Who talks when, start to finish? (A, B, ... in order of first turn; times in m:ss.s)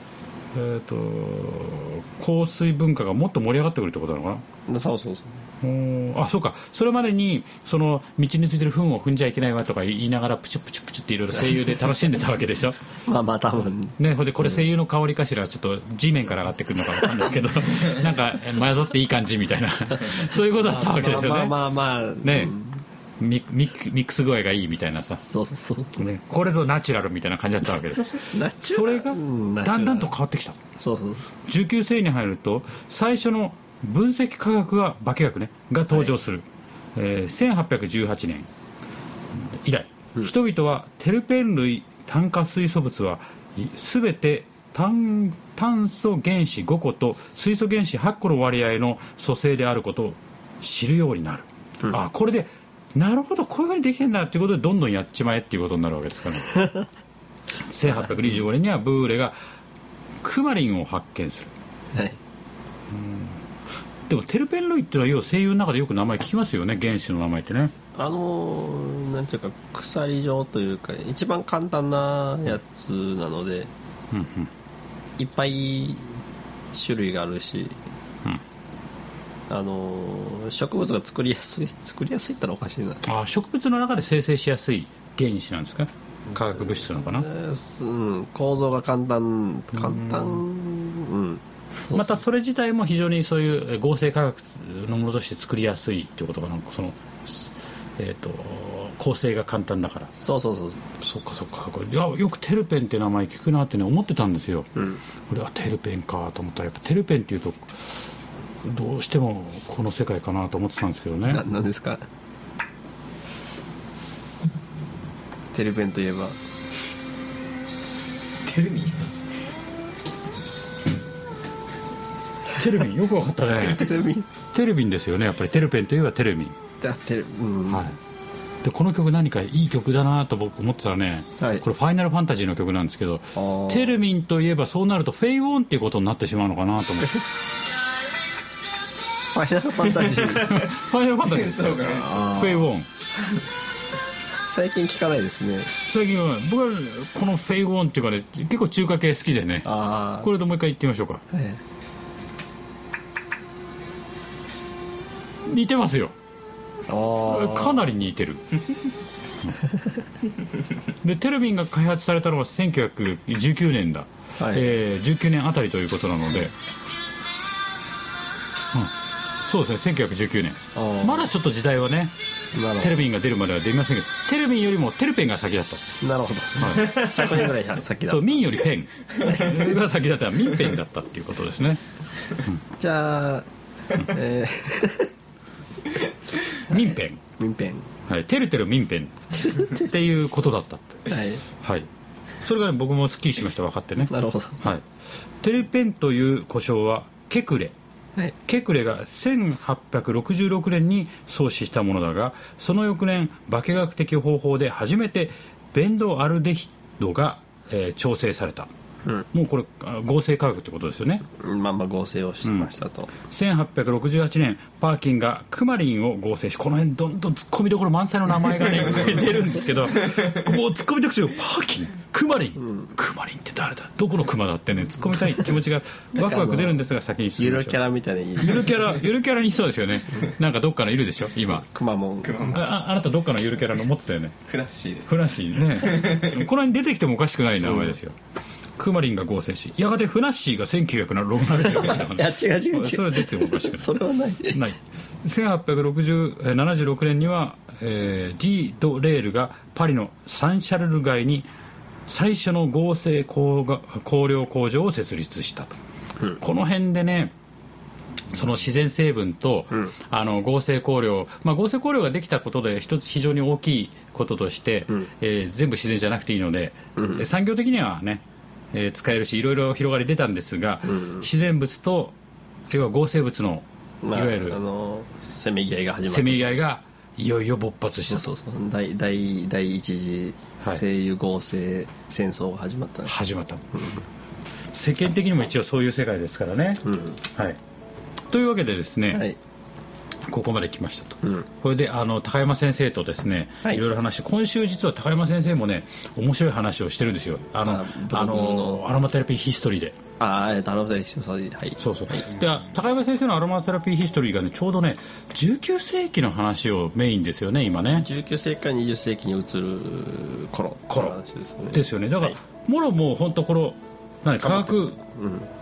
0:00.5-0:04.4 A
0:04.7-0:05.4 B
0:05.6-0:12.8 A
0:13.0-0:14.6 B
0:14.0-0:21.6 A
0:20.5-0:22.8 B
0:22.2-0:22.5 A
0:23.2-0:25.2 A
0:25.2-0:26.0 B
0:26.0-0:30.6 A
0:28.2-0:30.1 B
0:30.8-0:31.2 B
0:31.4-0:38.5 A
0:39.3-0:56.7 A
0:57.6-0:59.4 A
1:00.2-1:01.5 A
1:01.9-1:02.2 B
1:02.9-1:03.4 A
1:04.1-1:07.7 A
1:07.9-1:13.7 B
1:14.1-1:14.5 A
1:15.2-1:16.2 B
1:16.7-1:17.8 B
1:19.5-1:23.0 B
1:23.0-1:27.3 A
1:27.1-1:32.2 B
1:29.8-1:30.4 A
1:31.9-1:40.1 A
1:40.1-1:40.8 B
1:41.0-1:44.7 A
1:44.7-1:45.0 B
1:45.3-1:48.0 A
1:48.6-1:51.4 A
1:51.3-1:52.0 B
1:55.5-1:56.4 B
1:58.4-1:59.1 C
2:02.5-2:03.9 A
2:03.5-2:04.3 B
2:04.5-2:06.6 A
2:06.8-2:07.9 B
2:07.7-2:08.0 A
2:08.6-2:17.2 A
2:11.4-2:11.6 B
2:13.3-2:14.0 B
2:19.3-2:20.6 B
2:20.2-2:20.6 C
2:20.5-2:22.9 A
2:21.3-2:22.5 C
2:21.8-2:22.7 B
2:24.4-2:25.7 B
2:25.8-2:29.7 A
2:29.6-2:30.3 B
2:30.2-2:31.2 A
2:31.3-2:31.6 B
2:35.4-2:36.1 A
2:36.9-2:37.8 B
2:37.2-2:38.6 A
2:41.0-2:46.5 A
2:44.4-2:44.7 B
2:48.7-2:52.1 A
2:50.7-2:51.3 B
2:52.5-2:53.0 B
2:52.8-2:55.8 A
2:56.0-2:58.5 B
2:56.6-2:57.3 A
2:58.0-3:01.8 A
2:59.2-2:59.4 B
3:02.8-3:05.1 B
3:06.5-3:07.2 A
3:06.5-3:07.9 B
3:08.1-3:14.8 A
3:09.4-3:09.8 B
3:11.1-3:11.4 B
3:14.0-3:14.6 B
3:15.4-3:17.8 A
3:18.4-3:28.7 A
3:29.3-3:31.2 A
3:31.4-3:33.1 B
3:32.4-3:32.7 A
3:33.2-3:47.8 A
3:40.0-3:40.3 C
3:46.1-3:46.8 B
3:47.4-3:48.7 B
3:48.4-3:51.7 A
3:51.7-3:52.5 B
3:52.2-3:52.6 C
3:52.5-3:54.4 A
3:54.5-3:55.1 C
3:55.1-3:58.2 A
3:55.7-3:56.4 C
3:58.8-4:03.9 A
4:01.8-4:04.6 B
4:04.5-4:11.5 A
4:12.1-4:15.7 A
4:16.4-4:17.3 A
4:18.3-4:32.2 A
4:27.0-4:27.2 B
4:30.8-4:31.2 B
4:32.7-4:34.6 A
4:34.0-4:36.6 B
4:36.1-4:38.3 A
4:38.1-4:43.1 B
4:43.0-4:43.8 A
4:43.7-4:44.0 B
4:44.7-4:47.6 A
4:46.8-4:47.2 B
4:48.3-4:49.2 A
4:49.1-4:49.4 B
4:50.3-5:00.0 A
4:51.2-4:51.5 B
4:57.6-4:58.8 B
5:00.2-5:02.3 B
5:01.8-5:08.1 A
5:07.9-5:12.3 B
5:10.9-5:11.2 A
5:11.7-5:15.0 A
5:14.4-5:15.5 B